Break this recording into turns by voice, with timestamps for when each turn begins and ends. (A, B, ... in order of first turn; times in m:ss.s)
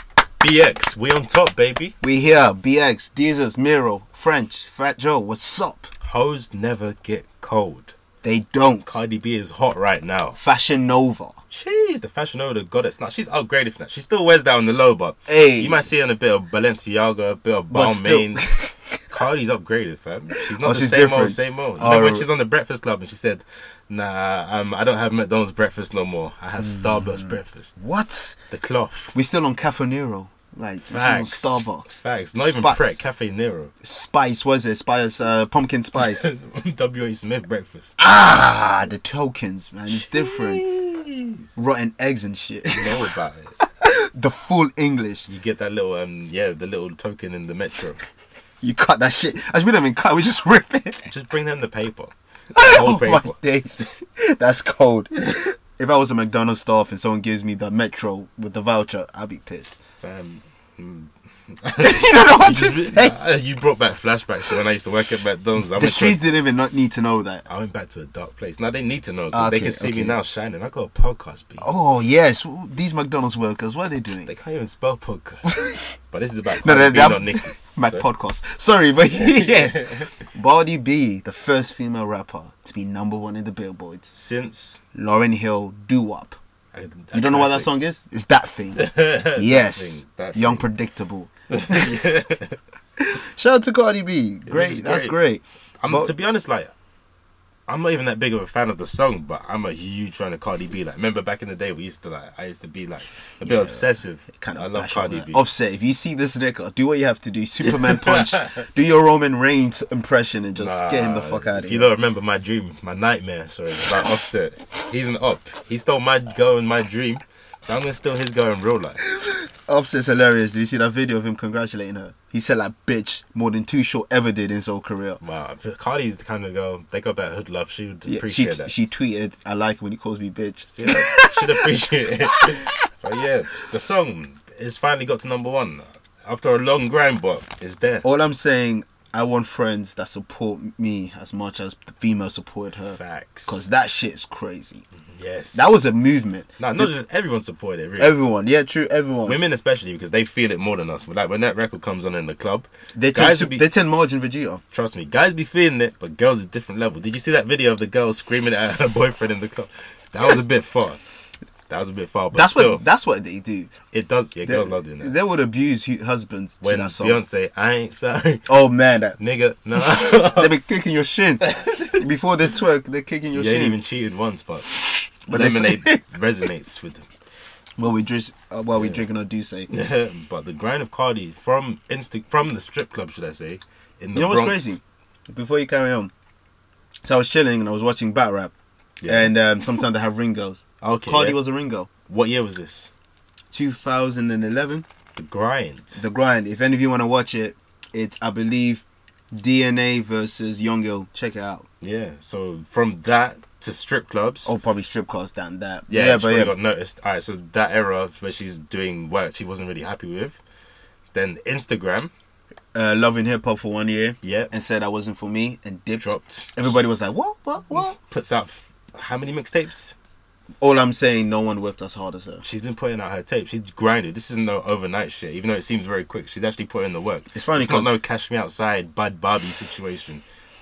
0:00.4-0:01.9 A
0:02.0-0:05.9 B
0:06.0-0:07.9 A
0:08.2-0:09.0 B
0:08.8-0:10.4 A
0:10.4-0:11.4 B
0:11.5-0:18.5 A
0:15.3-0:15.8 B
0:17.7-0:18.8 B
0:19.1-0:27.8 A
0:20.5-0:22.3 B
0:26.6-0:28.4 B
0:28.5-0:29.1 A
0:29.1-0:33.0 B
0:30.8-0:33.7 A
0:33.8-0:36.3 B
0:35.9-0:37.9 A
0:38.0-0:40.6 B
0:39.9-0:41.5 A
0:41.6-0:43.1 B
0:42.7-0:43.6 A
0:43.8-0:45.3 B
0:45.3-0:48.0 A
0:48.6-0:51.1 B
0:51.1-0:53.3 A
0:52.5-0:59.8 B
1:00.0-1:06.2 A
1:01.8-1:03.1 B
1:05.6-1:07.4 B
1:07.5-1:11.7 A
1:09.3-1:10.2 B
1:11.6-1:14.3 B
1:14.2-1:18.0 A
1:15.5-1:15.8 B
1:16.6-1:24.1 B
1:19.2-1:20.2 A
1:24.1-1:24.8 A
1:24.9-1:26.4 B
1:26.7-1:27.7 A
1:27.1-1:31.9 B
1:28.8-1:30.7 A
1:31.5-1:32.6 A
1:33.0-1:36.1 B
1:34.5-1:35.2 A
1:35.8-1:36.7 A
1:37.7-1:45.4 A
1:43.4-1:51.9 B
1:47.6-1:48.6 A
1:50.6-1:59.0 A
1:59.1-2:05.2 B
2:05.2-2:08.7 A
2:08.1-2:11.7 B
2:10.6-2:18.0 A
2:18.0-2:24.8 B
2:22.9-2:23.6 A
2:25.2-2:25.8 A
2:25.5-2:26.9 B
2:26.6-2:28.1 A
2:28.0-2:29.4 B
2:29.2-2:33.7 A
2:32.9-2:34.6 B
2:34.7-2:41.0 A
2:41.7-2:42.8 A
2:42.3-2:43.7 B
2:43.9-2:45.1 A
2:44.4-2:47.2 B
2:46.6-2:48.5 A
2:48.5-2:49.2 B
2:49.2-2:50.6 A
2:50.0-2:53.8 B
2:51.4-2:52.0 A
2:53.3-2:54.7 A
2:54.7-2:56.0 B
2:55.3-2:57.1 A
2:57.8-2:59.7 B
2:58.8-2:59.0 A
2:59.7-3:04.8 A
3:04.1-3:06.1 B
3:07.0-3:08.5 B
3:09.0-3:09.3 A
3:09.0-3:11.9 B
3:10.8-3:11.4 A
3:12.1-3:12.9 A
3:13.5-3:14.8 B
3:15.2-3:16.0 A
3:16.0-3:21.6 B
3:21.8-3:24.5 A
3:24.4-3:26.5 B
3:25.9-3:30.4 A
3:31.1-3:32.1 A
3:32.7-3:38.0 B
3:34.2-3:34.5 A
3:36.0-3:36.8 A
3:37.7-3:39.9 A
3:40.6-3:42.4 B
3:42.4-3:50.2 A
3:47.3-3:48.0 B